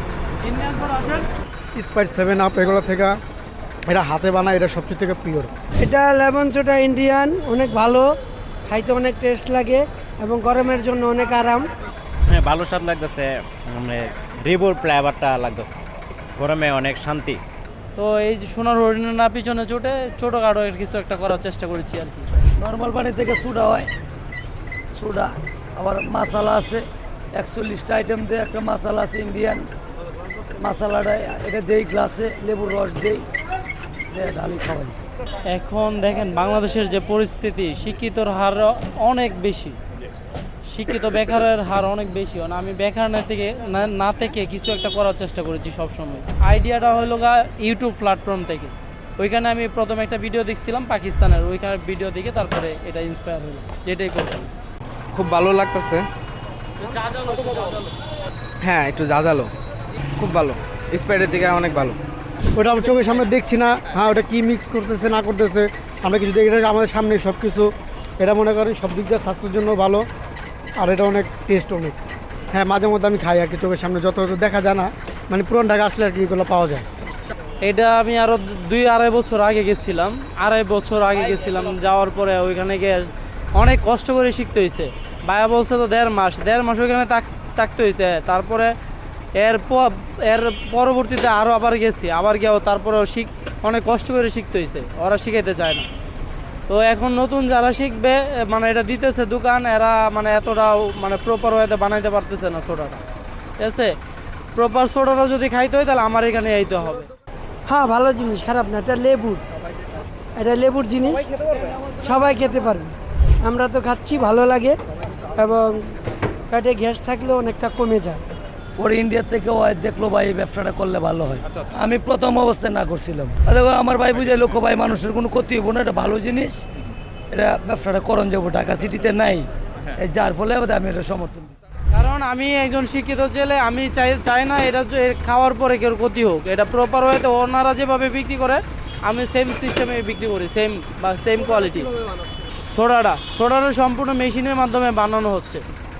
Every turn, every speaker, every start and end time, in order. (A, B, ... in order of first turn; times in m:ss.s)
0:00.4-0:01.3 A
0:01.7-0:03.2 B
0:03.8-0:05.5 B
0:05.8-0:08.1 C
0:08.7-0:11.7 C
0:12.3-0:15.8 D
0:16.4-0:17.4 D
0:18.0-0:22.3 A
0:22.6-0:23.9 E
0:24.9-0:29.7 E
0:30.6-0:33.3 E
0:34.1-0:35.0 E
0:35.5-0:39.8 A
0:40.7-0:54.5 A
0:55.1-0:56.1 F
0:58.6-0:59.5 F
1:00.2-1:02.0 F
1:02.5-1:10.0 B
1:10.8-1:12.0 B
1:12.5-1:16.9 B
1:17.6-1:28.7 A
1:29.4-1:35.9 A
1:36.7-1:43.0 A
1:43.6-1:43.9 A
1:44.5-1:47.1 A
1:47.7-1:49.4 C
1:50.4-1:51.3 C
1:52.0-1:52.9 C
1:53.4-1:54.8 C
1:55.4-1:55.9 C
1:56.5-1:58.2 C
1:58.8-2:06.6 E
2:07.3-2:11.6 E
2:11.9-2:21.9 A
2:22.7-2:25.6 A